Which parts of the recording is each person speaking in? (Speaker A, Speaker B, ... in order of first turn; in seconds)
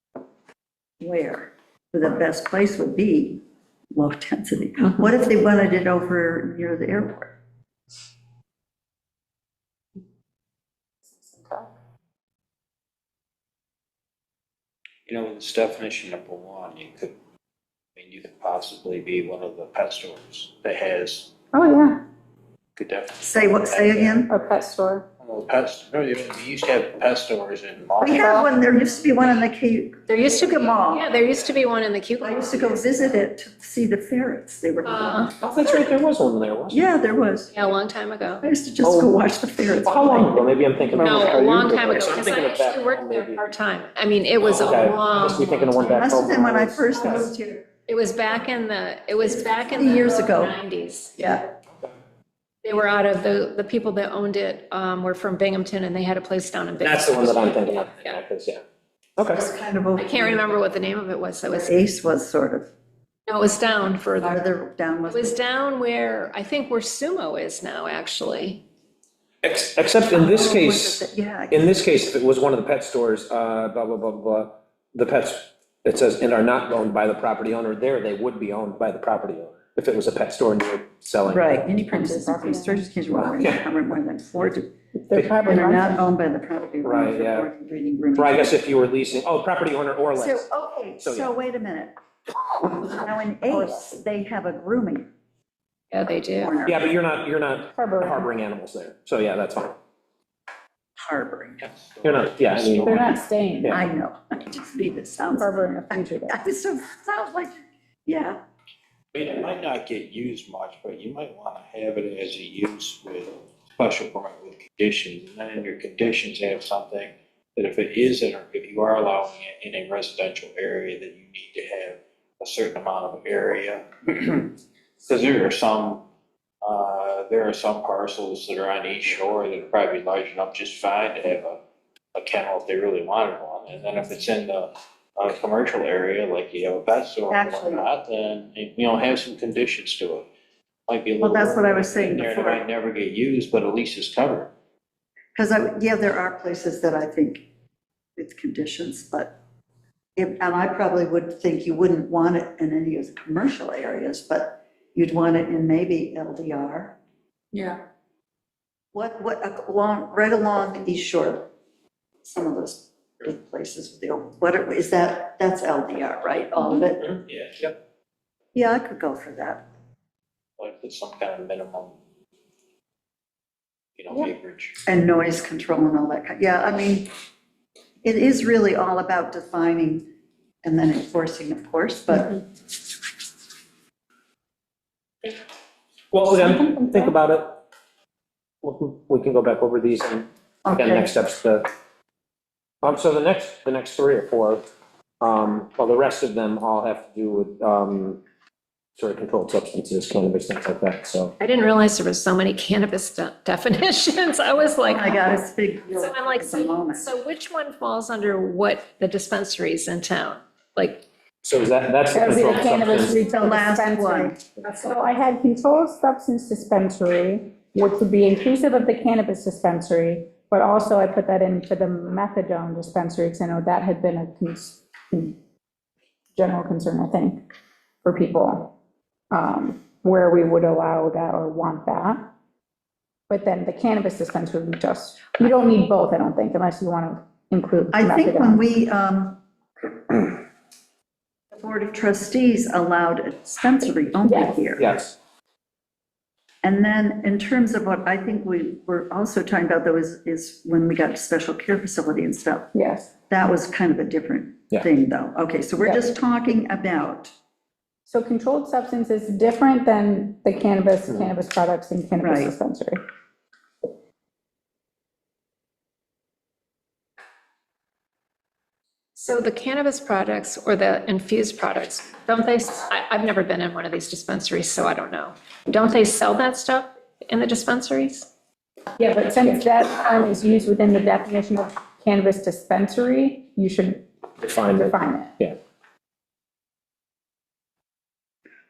Speaker A: 1.0-3.4, 3.9-7.3, 23.2-24.3, 28.0-31.1, 32.2-35.3, 36.7-37.5, 38.4-40.5, 45.8-47.6, 49.2-50.6, 51.2-51.5, 59.3-60.6, 61.5-62.7, 64.2-65.4, 70.1-71.7, 81.2-84.7, 85.4-88.6, 90.2-91.9, 92.7-95.1, 96.3-96.9, 101.0-101.6, 103.7-108.4, 137.3-137.9, 141.2-142.7, 145.3-147.4, 148.2-149.4, 150.2-157.0, 158.9-161.5, 162.2-167.1, 168.5-169.7, 174.8-177.1, 178.0-180.1, 180.6-182.4, 190.6-191.1, 204.8-207.1, 213.2-214.4, 237.9-239.4, 240.1-240.4, 241.5-244.9, 246.6-252.7, 253.3-257.3, 262.2-262.5
Speaker B: 11.2-11.7, 21.5-22.0, 24.3-25.1, 81.9-82.9, 85.0-86.0, 97.7-98.3, 102.8-103.8, 105.3-106.4, 186.6-186.9, 212.1-225.4, 226.3-227.4, 228.0-228.7, 229.3-232.3, 233.3-238.6, 244.2-244.8, 252.7-253.1, 258.1-263.0, 278.9-284.1, 284.7-285.4
Speaker C: 15.1-17.1, 17.9-21.3, 22.8-24.3, 25.2-28.4, 101.6-103.2, 109.1-126.0, 126.6-131.6, 132.1-140.3, 140.9-144.5, 167.0-167.8, 170.6-172.0, 173.9-174.8
Speaker D: 30.1-32.9, 34.9-35.3, 37.5-38.5, 41.0-46.0, 47.0-47.2, 47.9-51.1, 52.6-58.1, 60.0-61.8, 63.3-64.4, 65.1-68.6, 95.9-96.6, 201.4-205.3, 205.9-211.1, 269.1-278.3
Speaker E: 35.4-36.8, 38.8-39.1, 39.8-43.4, 44.5-47.3, 56.8-58.6, 59.2-59.5, 69.4-81.6, 83.1-83.6, 86.8-87.5, 88.1-90.5, 91.0-91.3, 96.7-99.8, 102.0-103.8, 186.1-187.6, 188.6-191.7, 192.8-194.7, 195.2-198.2, 199.0-201.3, 211.4-213.2, 244.8-245.2, 261.1-261.3, 284.4-285.6